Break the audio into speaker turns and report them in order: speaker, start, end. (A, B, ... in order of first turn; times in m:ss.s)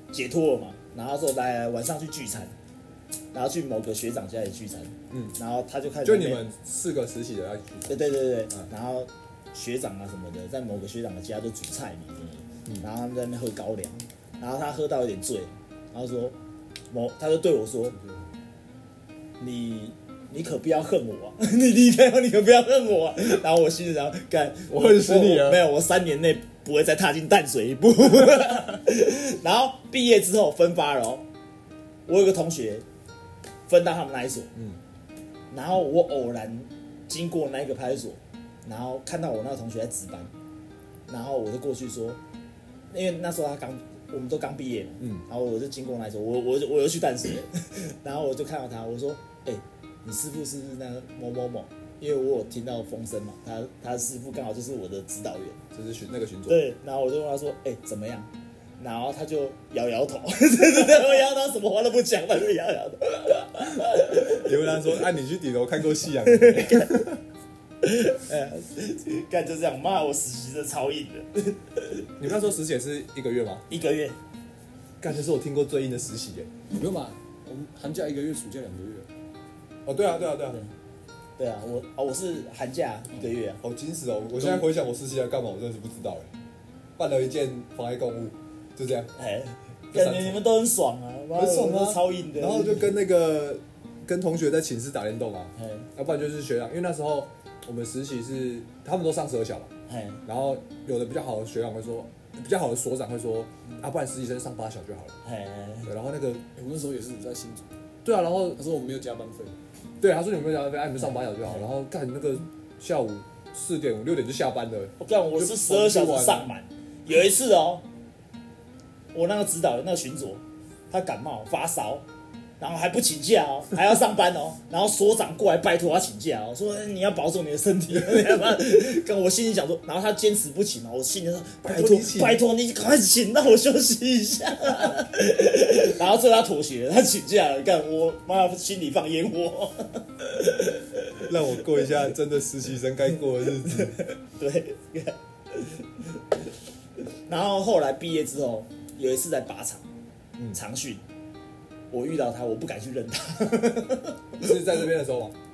0:00.1-0:02.5 A
0:03.3-0:06.5 A
0:05.1-0:05.4 B
0:06.0-0:08.0 B
0:07.9-0:16.4 A
0:16.9-0:18.0 A
0:19.4-0:31.2 A
0:24.7-0:25.6 B
0:32.1-0:32.8 A
0:33.7-0:34.5 A
0:35.5-0:40.3 A
0:41.1-0:42.2 A
0:42.9-0:55.6 A
0:55.7-0:56.6 B
0:56.5-1:05.0 A
1:04.1-1:07.2 B
1:06.2-1:06.9 A
1:07.8-1:12.1 A
1:12.2-1:13.6 B
1:13.7-1:14.2 A
1:15.0-1:16.5 B
1:16.7-1:19.1 C
1:19.9-1:20.6 B
1:21.4-1:23.6 A
1:23.6-1:26.3 B
1:24.4-1:24.7 A
1:27.0-1:29.1 B
1:29.2-1:32.9 A
1:29.9-1:30.4 B
1:31.4-1:39.7 B
1:35.6-1:35.9 A
1:39.9-1:40.2 A
1:40.3-1:45.2 B
1:45.2-1:45.9 A
1:45.9-1:46.4 B
1:46.6-1:47.7 C
1:48.0-1:48.6 B
1:48.5-1:49.6 C
1:50.0-1:56.5 B
1:55.0-1:57.8 A
1:59.1-2:02.0 A
2:02.6-2:21.9 A
2:11.6-2:12.4 B
2:21.3-2:24.0 B
2:23.4-2:26.2 A
2:27.3-2:29.8 A
2:30.5-2:31.0 A
2:31.9-2:34.8 A
2:34.4-2:35.4 B